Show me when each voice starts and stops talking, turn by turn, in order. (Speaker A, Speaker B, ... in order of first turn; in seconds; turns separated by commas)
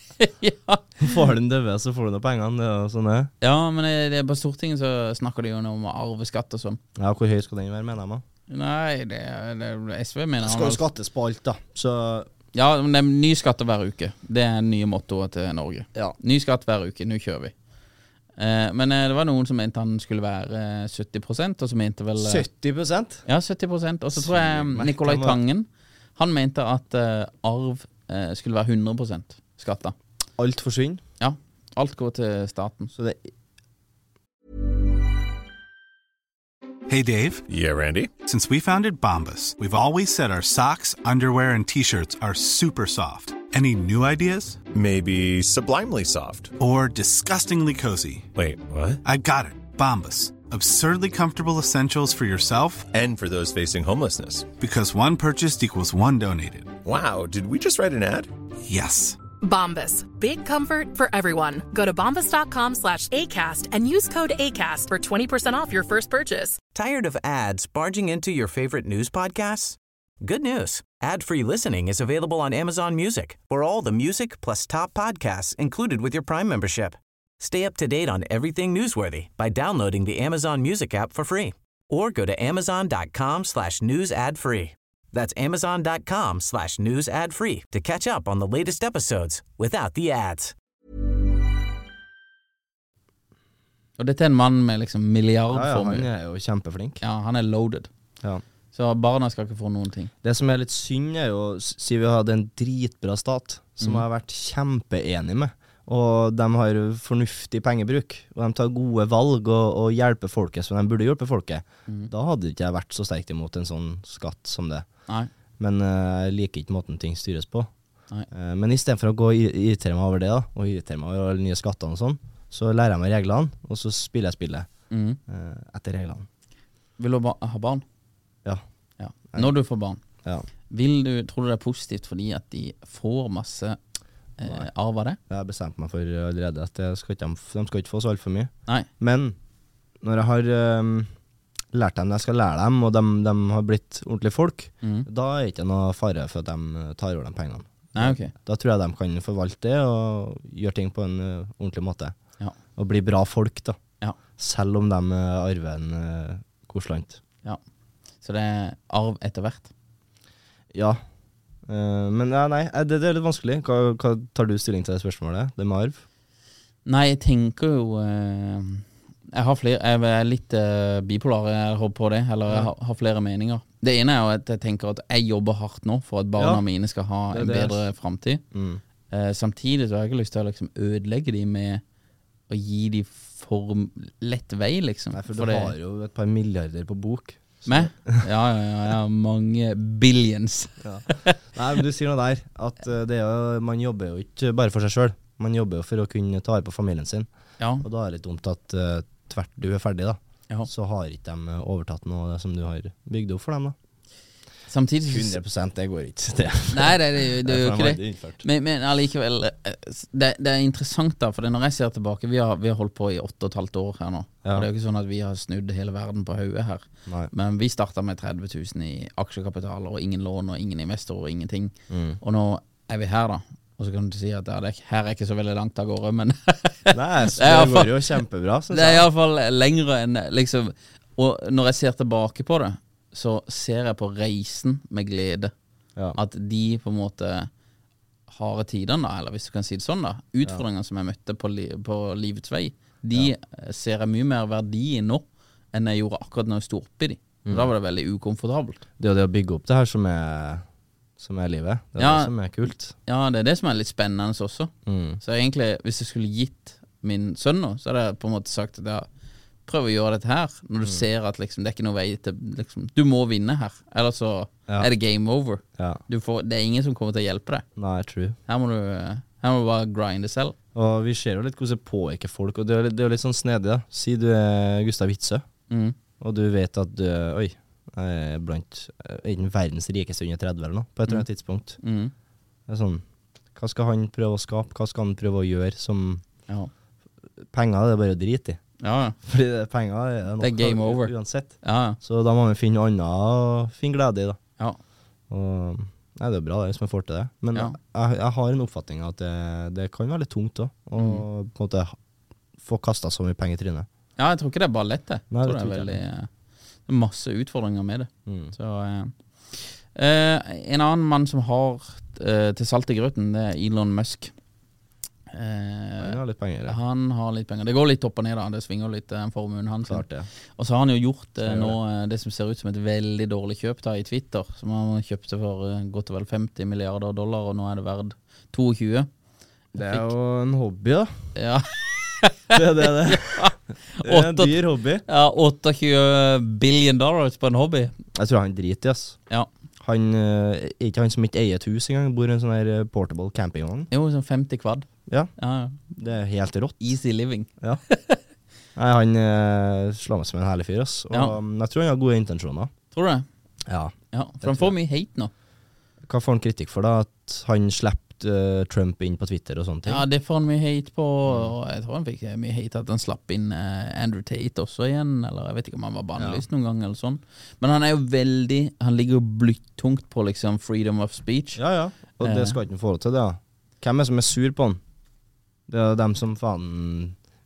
Speaker A: 0.2-1.2, Speaker B: 1.0-3.3, Speaker A: 3.4-6.8, Speaker B: 7.0-8.2, Speaker A: 8.5-10.8, Speaker B: 10.4-12.3, Speaker A: 12.5-17.5, Speaker A: 18.4-22.4, Speaker B: 22.2-23.2, Speaker A: 23.2-29.9, Speaker B: 24.1-25.4, Speaker B: 30.4-31.0, Speaker A: 31.2-32.9, Speaker B: 32.9-33.2, Speaker C: 36.9-37.4, Speaker D: 37.5-38.1, Speaker C: 38.2-44.6, Speaker D: 44.7-46.5, Speaker C: 46.6-48.3, Speaker D: 48.4-49.0, Speaker C: 49.0-52.9, Speaker D: 52.9-54.5, Speaker C: 54.6-56.7, Speaker D: 56.8-58.3, Speaker C: 58.6-59.2, Speaker E: 59.4-66.6, Speaker F: 66.7-90.5, Speaker A: 94.0-96.1, Speaker B: 95.5-97.0, Speaker A: 97.0-97.9, Speaker A: 98.7-100.1, Speaker B: 100.2-114.8, Speaker B: 115.6-117.7, Speaker B: 118.3-124.7, Speaker A: 124.9-125.2, Speaker B: 125.3-126.3, Speaker A: 127.0-127.8, Speaker A: 129.0-130.0, Speaker A: 130.7-133.8, Speaker A: 134.4-135.2, Speaker B: 135.3-139.3, Speaker B: 140.0-141.1, Speaker B: 141.7-152.1, Speaker A: 144.8-145.1, Speaker A: 147.9-148.3, Speaker B: 152.8-153.8, Speaker B: 154.4-157.2, Speaker A: 158.2-159.7, Speaker B: 160.7-161.0, Speaker B: 161.7-166.0, Speaker A: 166.8-178.4, Speaker B: 176.4-176.6, Speaker B: 177.3-177.8, Speaker B: 178.5-178.8, Speaker A: 179.1-181.8, Speaker A: 182.5-185.7, Speaker B: 185.1-188.2, Speaker A: 187.7-191.3, Speaker B: 190.8-197.3, Speaker A: 197.6-197.8, Speaker B: 197.8-203.7, Speaker A: 204.7-205.4, Speaker B: 205.1-208.4, Speaker A: 206.7-228.2, Speaker B: 221.9-222.2, Speaker B: 226.9-229.1, Speaker A: 228.7-235.5, Speaker A: 236.1-237.5, Speaker A: 238.3-248.8, Speaker B: 247.4-247.7, Speaker B: 249.0-250.6, Speaker B: 251.2-252.9, Speaker A: 252.0-252.3, Speaker A: 253.0-259.1, Speaker B: 254.8-255.2, Speaker A: 259.6-267.6, Speaker B: 265.8-266.0, Speaker B: 267.8-268.4, Speaker A: 268.5-270.5, Speaker B: 270.7-275.4, Speaker A: 275.7-275.9, Speaker B: 276.2-281.8, Speaker A: 281.8-282.1, Speaker B: 282.7-283.0, Speaker B: 283.5-286.2, Speaker B: 287.4-288.6, Speaker A: 288.8-289.2, Speaker B: 289.2-294.4, Speaker A: 290.4-292.0, Speaker B: 295.3-301.9, Speaker A: 301.0-301.2, Speaker B: 302.6-303.9, Speaker A: 304.2-306.3, Speaker B: 305.3-306.0, Speaker A: 306.9-314.3, Speaker B: 308.2-308.5, Speaker A: 315.3-320.0, Speaker B: 316.0-316.8, Speaker B: 319.9-320.3, Speaker A: 320.6-329.1, Speaker B: 321.4-321.8, Speaker B: 329.7-331.2, Speaker A: 329.8-330.1, Speaker A: 331.3-337.9, Speaker B: 332.5-335.0, Speaker B: 338.1-339.2, Speaker B: 339.8-343.9, Speaker A: 343.9-345.8, Speaker B: 345.9-346.8, Speaker A: 346.8-348.2, Speaker B: 348.8-352.7, Speaker A: 351.1-351.4, Speaker A: 352.9-353.2, Speaker B: 353.7-354.7, Speaker A: 354.1-355.3, Speaker B: 356.0-360.1, Speaker A: 359.9-371.6, Speaker B: 361.2-361.5, Speaker B: 366.2-366.4, Speaker B: 371.6-374.8, Speaker A: 372.2-372.6, Speaker B: 375.7-377.1